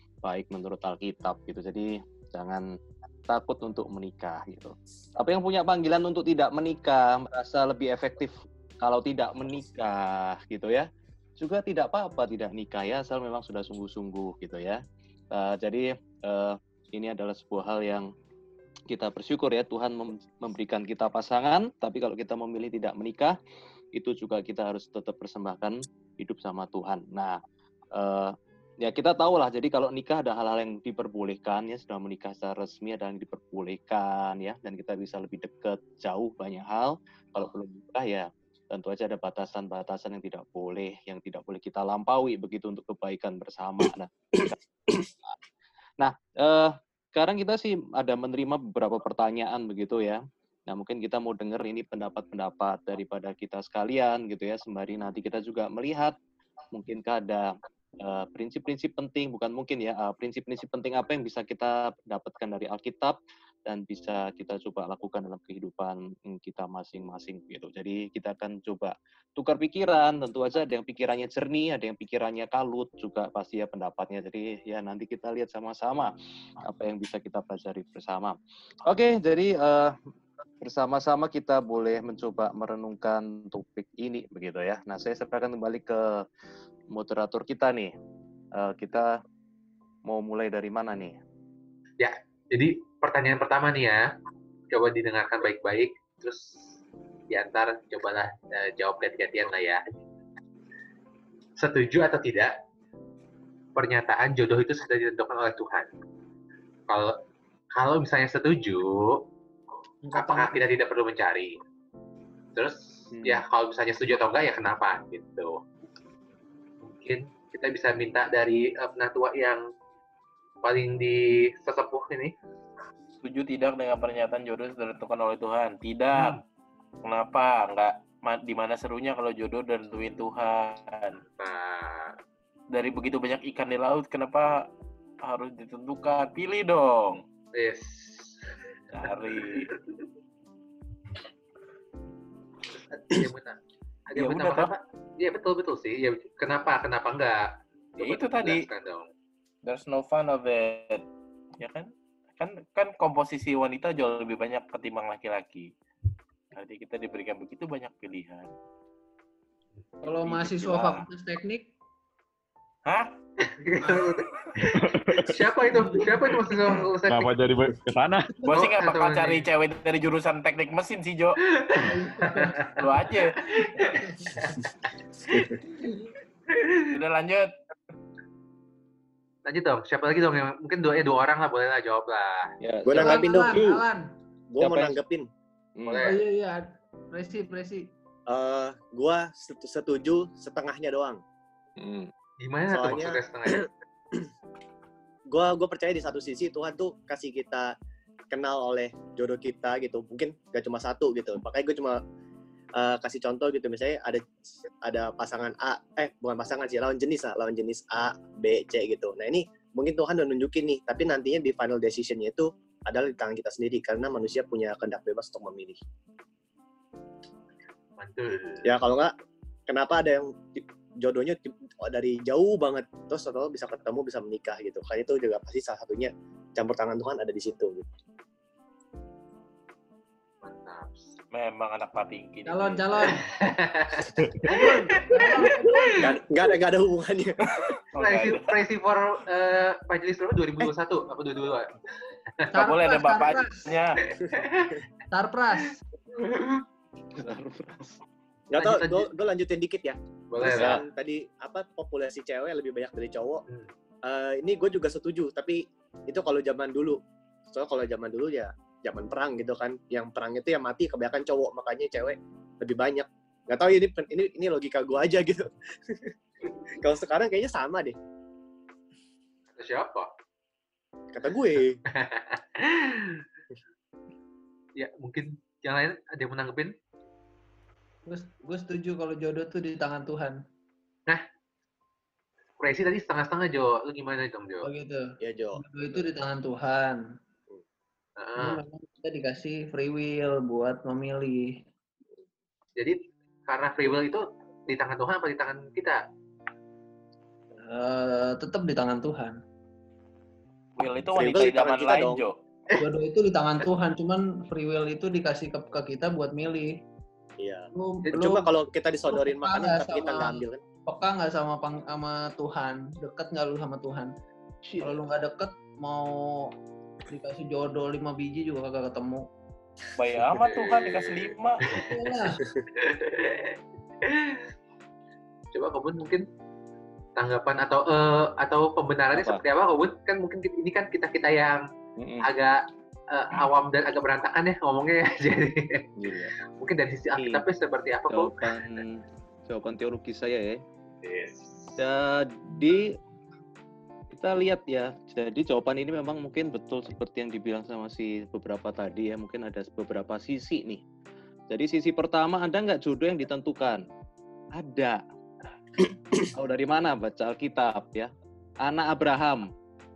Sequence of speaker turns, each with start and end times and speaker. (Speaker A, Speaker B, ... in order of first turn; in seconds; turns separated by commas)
Speaker A: 0.2-2.6, Speaker A: 3.3-10.9, Speaker A: 11.4-14.8, Speaker A: 15.3-18.1, Speaker A: 18.9-23.4, Speaker A: 23.9-27.4, Speaker A: 27.9-45.4, Speaker A: 46.0-56.1, Speaker A: 56.7-80.0, Speaker A: 80.6-86.2, Speaker A: 86.9-87.9, Speaker A: 88.5-89.2, Speaker A: 90.0-91.2, Speaker B: 92.0-94.1, Speaker B: 94.7-96.6, Speaker B: 97.3-99.8, Speaker B: 101.6-102.5, Speaker B: 103.7-105.9, Speaker B: 106.9-107.2, Speaker B: 107.7-109.3, Speaker C: 110.0-110.6, Speaker B: 110.1-111.6, Speaker B: 112.5-115.6, Speaker A: 113.1-113.4, Speaker B: 116.8-119.6, Speaker B: 120.6-122.3, Speaker D: 123.2-126.4, Speaker B: 126.1-126.4, Speaker D: 127.0-131.2, Speaker B: 131.3-132.2, Speaker D: 132.7-134.7, Speaker D: 135.2-137.2, Speaker B: 137.5-138.5, Speaker D: 138.9-139.7, Speaker B: 139.0-139.8, Speaker B: 142.7-149.1, Speaker D: 144.2-144.7, Speaker D: 148.0-148.7, Speaker D: 149.6-151.1, Speaker D: 151.6-155.7, Speaker D: 156.5-158.5, Speaker C: 160.0-161.7, Speaker D: 160.2-161.0, Speaker D: 162.8-163.1, Speaker B: 163.5-167.3, Speaker E: 164.8-165.4, Speaker E: 167.1-168.5, Speaker D: 168.4-171.4, Speaker B: 168.5-169.5, Speaker B: 171.6-172.7, Speaker C: 171.8-172.8, Speaker D: 172.8-173.4, Speaker B: 173.5-174.6, Speaker C: 173.8-174.2, Speaker B: 176.5-176.8, Speaker D: 176.9-177.5, Speaker B: 179.4-182.5, Speaker A: 182.6-183.8, Speaker F: 182.8-183.7, Speaker C: 182.9-184.1, Speaker F: 184.5-185.3, Speaker A: 184.6-185.0, Speaker A: 185.8-186.1, Speaker B: 185.8-186.2, Speaker C: 186.0-187.9, Speaker F: 188.3-191.2, Speaker A: 191.8-192.1, Speaker B: 192.4-193.7, Speaker F: 192.7-194.2, Speaker F: 195.3-197.7, Speaker F: 198.3-202.0, Speaker F: 202.7-204.3, Speaker F: 204.8-215.8, Speaker B: 218.0-218.7, Speaker F: 218.6-219.1, Speaker F: 219.7-227.9, Speaker B: 230.4-231.1, Speaker D: 231.3-233.1, Speaker C: 232.4-233.2, Speaker B: 233.2-234.2, Speaker C: 234.4-236.1, Speaker B: 234.9-235.9, Speaker F: 236.0-237.4, Speaker D: 237.6-238.5, Speaker B: 238.0-241.7, Speaker C: 242.5-243.6, Speaker D: 242.6-244.0, Speaker B: 244.0-244.8, Speaker C: 245.1-245.8, Speaker B: 246.1-246.6, Speaker A: 247.1-248.0, Speaker F: 248.5-253.4, Speaker B: 248.6-249.1, Speaker B: 250.3-250.8, Speaker A: 250.4-250.8, Speaker F: 254.0-257.0, Speaker F: 257.5-266.1, Speaker F: 266.8-267.9, Speaker B: 269.5-270.1, Speaker F: 271.1-271.8, Speaker B: 271.9-273.2, Speaker B: 274.8-276.7, Speaker C: 278.1-280.4, Speaker B: 282.6-284.7, Speaker C: 284.6-287.0, Speaker F: 285.2-285.6, Speaker B: 288.2-288.6, Speaker C: 288.4-291.6, Speaker B: 292.8-296.0, Speaker C: 297.6-299.4, Speaker D: 300.8-302.4, Speaker F: 301.1-302.2, Speaker C: 302.7-306.8, Speaker F: 307.4-310.6, Speaker C: 307.7-308.5, Speaker C: 309.1-314.1, Speaker A: 314.6-315.1, Speaker C: 314.8-316.5, Speaker C: 317.1-319.3, Speaker D: 319.9-321.8, Speaker B: 320.4-322.1, Speaker C: 321.9-322.4, Speaker B: 322.7-324.5, Speaker B: 325.5-326.2, Speaker B: 327.1-331.6, Speaker A: 329.1-329.4, Speaker A: 332.0-332.3, Speaker B: 332.2-335.9, Speaker A: 336.0-336.4, Speaker B: 336.6-338.7, Speaker A: 337.1-337.4, Speaker A: 338.1-340.6, Speaker B: 341.0-341.8, Speaker A: 341.8-343.0, Speaker A: 344.1-350.8, Speaker A: 351.5-353.8, Speaker A: 354.5-355.0, Speaker A: 356.3-359.5